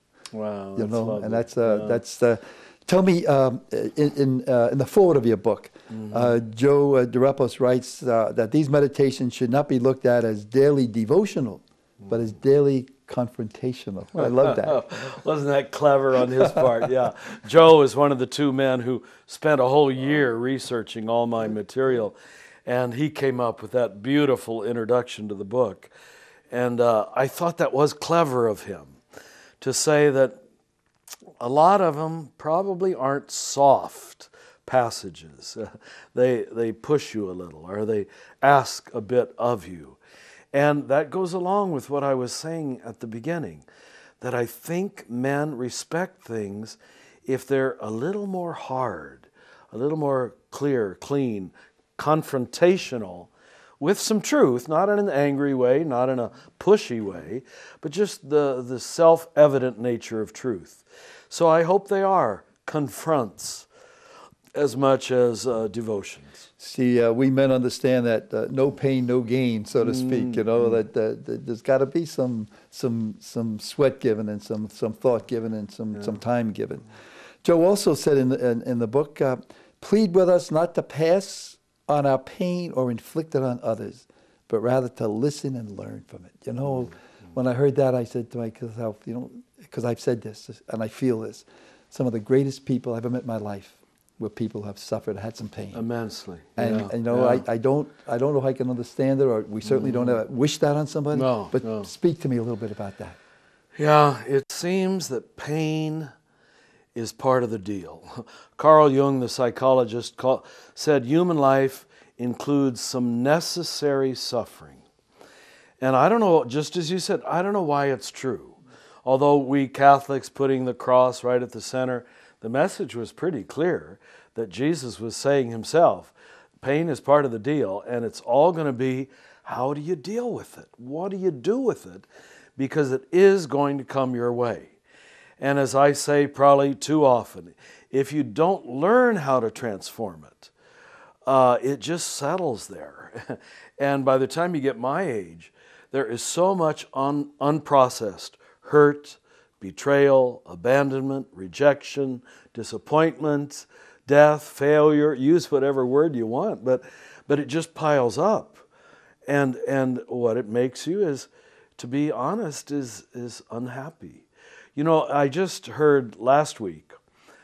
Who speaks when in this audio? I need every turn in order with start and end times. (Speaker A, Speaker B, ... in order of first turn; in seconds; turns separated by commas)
Speaker A: 0.3-2.0, Speaker B: 0.8-15.1, Speaker A: 5.9-6.3, Speaker A: 14.2-22.1, Speaker B: 16.4-16.6, Speaker A: 22.6-25.9, Speaker A: 26.5-29.0, Speaker A: 29.6-30.4, Speaker A: 31.4-40.0, Speaker A: 40.5-43.6, Speaker A: 44.2-63.7, Speaker A: 64.5-66.4, Speaker B: 66.6-76.9, Speaker A: 69.8-70.4, Speaker B: 77.4-95.8, Speaker A: 95.7-97.4, Speaker B: 96.6-103.2, Speaker A: 99.6-100.2, Speaker A: 101.1-101.9, Speaker A: 103.8-106.1, Speaker A: 106.9-114.8, Speaker A: 115.8-134.8, Speaker A: 135.4-140.5, Speaker A: 141.2-158.6, Speaker A: 159.3-166.9